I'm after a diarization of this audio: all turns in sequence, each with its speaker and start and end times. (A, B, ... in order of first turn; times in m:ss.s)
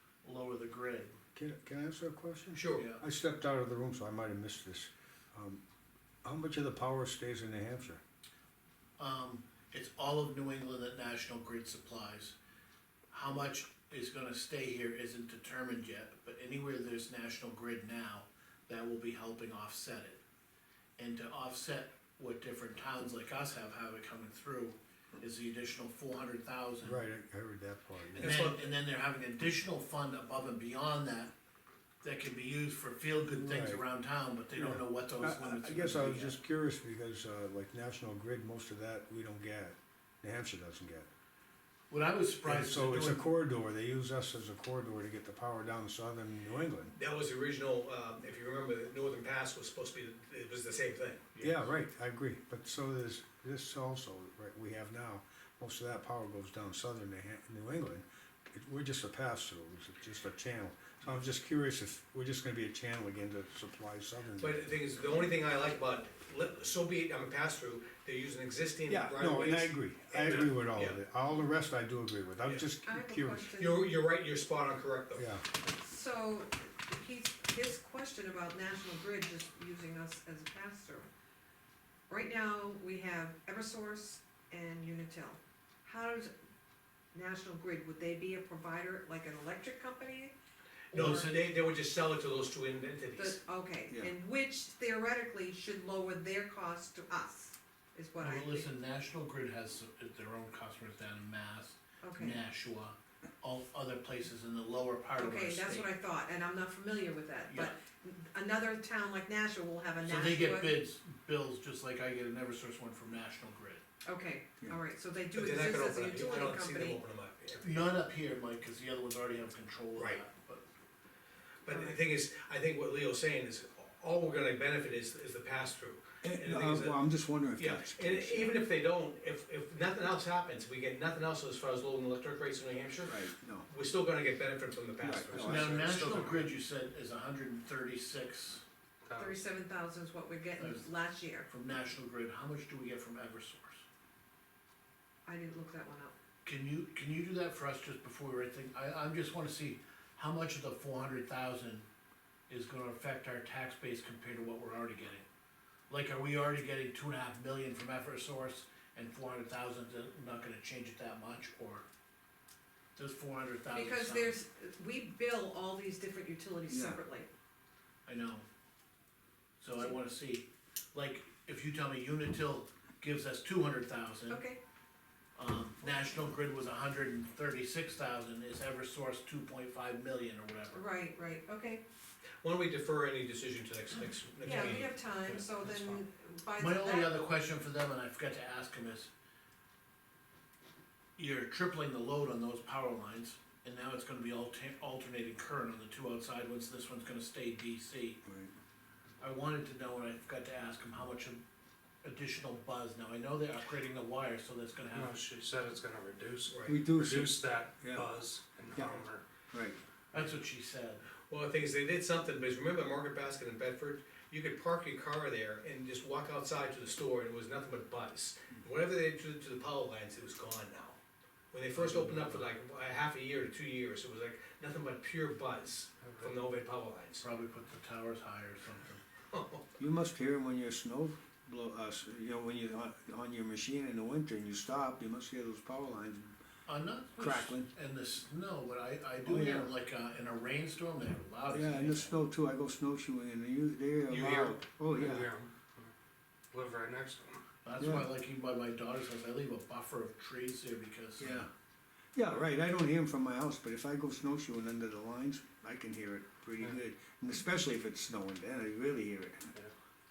0:00.2-0:01.2 A
0:01.4-0:05.6 B
0:02.5-0:02.9 C
0:02.7-0:03.0 A
0:06.2-0:08.0 B
0:09.0-0:12.4 A
0:13.1-0:20.2 A
0:21.0-0:27.0 A
0:26.8-0:28.4 B
0:28.1-0:28.7 C
0:28.2-0:31.3 A
0:32.0-0:36.4 A
0:33.3-0:33.8 B
0:34.6-0:41.1 B
0:41.9-0:43.2 A
0:42.4-0:46.9 B
0:46.9-0:51.3 C
0:51.4-0:51.6 A
0:51.4-1:04.6 B
1:04.4-1:11.0 C
1:08.9-1:13.5 B
1:12.8-1:13.9 D
1:13.6-1:15.3 C
1:15.2-1:15.4 B
1:15.6-1:21.1 D
1:22.1-1:26.3 D
1:27.1-1:30.3 D
1:30.9-1:31.3 D
1:30.9-1:31.3 A
1:30.9-1:33.4 C
1:33.2-1:38.7 D
1:38.2-1:45.9 A
1:42.0-1:42.4 D
1:45.2-1:50.8 D
1:47.5-1:47.8 A
1:50.0-1:53.8 A
1:54.0-1:57.0 D
1:55.3-1:57.9 C
1:57.6-2:00.6 A
2:00.0-2:00.2 C
2:01.6-2:16.3 C
2:01.7-2:02.0 D
2:06.2-2:08.6 B
2:13.1-2:13.7 B
2:15.0-2:16.5 B
2:15.4-2:18.6 A
2:19.0-2:19.4 E
2:19.2-2:21.5 D
2:20.6-2:20.9 A
2:21.4-2:23.8 A
2:25.3-2:26.1 D
2:26.4-2:31.9 A
2:32.5-2:35.3 A
2:35.9-2:41.8 A
2:43.0-2:44.4 A
2:43.7-2:47.3 D
2:46.7-2:47.0 B
2:48.1-2:48.4 A
2:49.6-2:54.4 A
2:54.3-2:54.6 D
2:55.4-3:00.8 A
3:00.7-3:01.8 D
3:02.4-3:05.0 C
3:04.4-3:07.2 D
3:05.3-3:06.0 E
3:06.6-3:09.1 A
3:11.2-3:18.2 A
3:18.2-3:18.5 B
3:19.2-3:21.4 A
3:22.0-3:25.2 A
3:24.9-3:29.2 E
3:26.5-3:26.8 C
3:26.7-3:28.1 B
3:28.8-3:29.8 B
3:30.1-3:31.1 A
3:31.3-3:41.0 C
3:41.5-3:47.2 C
3:41.8-3:42.4 A
3:47.2-3:49.0 A
3:49.3-3:49.7 C
3:49.8-3:56.4 B
3:56.7-4:02.2 A
3:57.2-3:57.7 B
3:59.2-3:59.7 B
4:01.5-4:05.3 B
4:04.1-4:04.6 C
4:04.8-4:05.9 E
4:06.5-4:07.4 E
4:07.6-4:11.5 A
4:07.8-4:08.1 B
4:11.2-4:11.5 B
4:12.2-4:19.5 B